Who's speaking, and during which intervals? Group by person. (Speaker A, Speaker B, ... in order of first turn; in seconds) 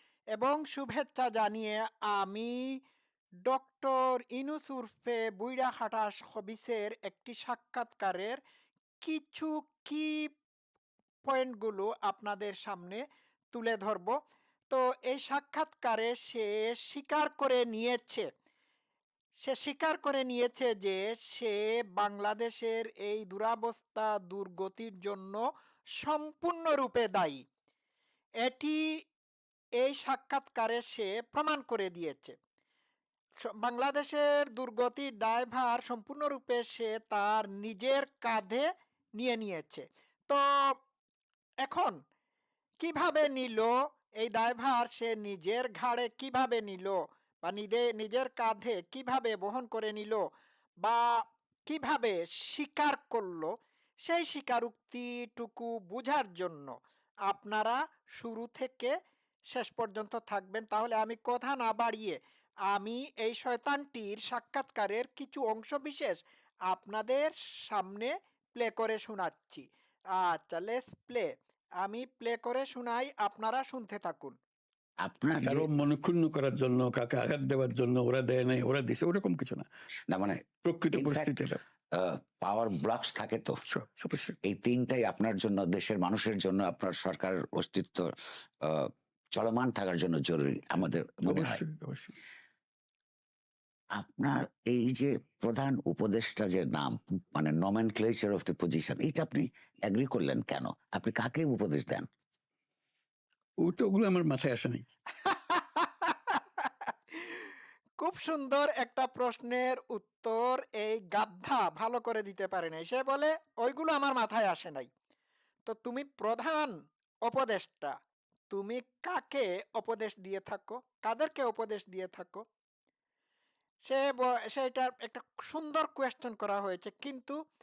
Speaker A: 0.3-2.6, 3.5-8.4, 9.0-10.1, 11.3-13.0, 13.5-14.1, 14.7-18.3, 19.4-25.4, 26.0-27.4, 28.4-28.8, 29.8-32.3, 33.4-38.7, 39.2-40.6, 41.6-42.0, 42.8-50.2, 50.8-51.1, 51.6-53.5, 54.0-56.7, 57.3-58.9, 59.5-62.2, 62.7-66.2, 66.7-69.6, 70.1-71.3, 71.8-74.3, 105.2-114.9, 115.7-116.7, 117.3-117.9, 118.5-122.4, 123.8-127.3
Speaker B: 75.0-75.7, 80.1-80.4, 80.9-81.3, 81.9-83.5, 84.4-88.1, 88.6-91.6, 94.0-102.0
Speaker C: 75.4-79.6, 80.6-81.6, 83.7-84.3, 91.2-92.2, 103.6-104.8